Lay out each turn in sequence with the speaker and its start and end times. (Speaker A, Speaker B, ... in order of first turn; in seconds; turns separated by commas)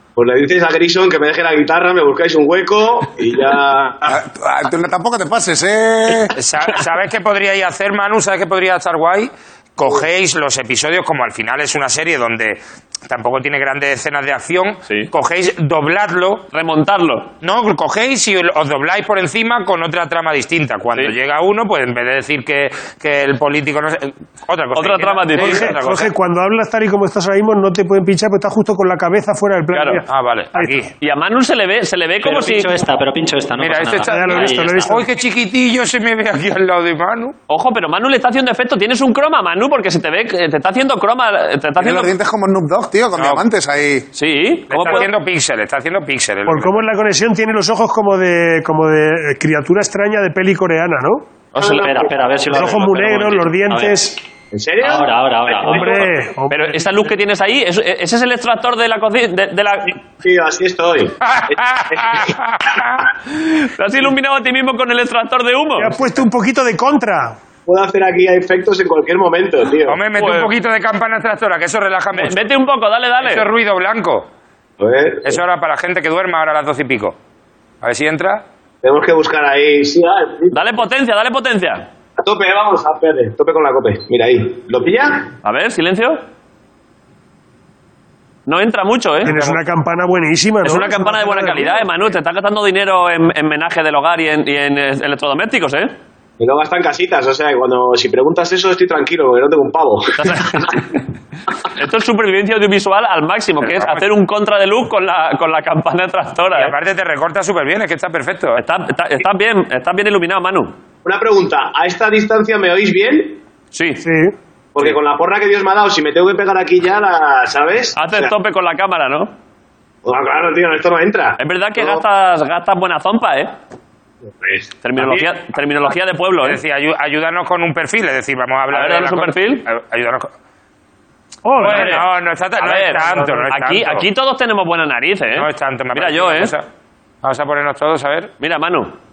Speaker A: 0.1-4.1, Speaker B: 4.1-6.3, Speaker C: 6.3-16.4, Speaker D: 16.5-17.3, Speaker C: 17.4-26.1, Speaker D: 24.7-25.8, Speaker E: 25.4-30.8, Speaker D: 29.7-30.0, Speaker C: 30.1-30.9, Speaker D: 31.0-32.7, Speaker F: 32.2-35.0, Speaker C: 33.6-37.3, Speaker E: 34.0-35.0, Speaker D: 37.5-42.1, Speaker B: 41.8-44.0, Speaker C: 43.1-43.4, Speaker D: 44.1-45.1, Speaker C: 44.7-46.8, Speaker E: 46.5-51.2, Speaker D: 51.5-51.9, Speaker A: 51.6-52.1, Speaker F: 51.6-54.0, Speaker E: 52.5-54.2, Speaker A: 54.5-56.0, Speaker F: 54.8-56.0, Speaker E: 55.6-56.8, Speaker D: 56.5-60.0, Speaker A: 60.2-62.3, Speaker C: 61.2-63.1, Speaker D: 63.3-65.9, Speaker E: 65.8-67.3, Speaker A: 67.7-70.0, Speaker C: 69.9-72.4, Speaker D: 70.2-70.5, Speaker D: 72.2-73.5, Speaker C: 73.2-74.3, Speaker A: 74.8-75.4, Speaker C: 75.2-77.2, Speaker C: 77.8-78.4, Speaker A: 78.8-80.6, Speaker D: 80.5-81.9, Speaker A: 82.2-85.3, Speaker D: 85.4-86.2, Speaker D: 88.5-89.3, Speaker E: 89.2-91.8, Speaker C: 89.2-89.6, Speaker D: 90.6-95.9, Speaker A: 96.4-100.7, Speaker D: 100.2-101.0, Speaker D: 101.7-106.7, Speaker C: 103.6-104.0, Speaker C: 106.5-108.6, Speaker D: 108.6-110.7, Speaker A: 111.0-113.4, Speaker D: 113.7-114.0, Speaker E: 114.0-114.3, Speaker A: 114.7-118.3, Speaker D: 118.0-119.3, Speaker A: 120.0-122.0, Speaker D: 121.4-123.5, Speaker A: 124.4-125.3, Speaker D: 124.8-126.6, Speaker C: 126.4-130.3, Speaker D: 128.7-129.7, Speaker E: 131.4-132.0, Speaker D: 131.6-132.0, Speaker C: 131.6-134.1, Speaker D: 132.6-136.5, Speaker C: 135.3-136.7, Speaker C: 137.2-138.3, Speaker D: 138.4-138.9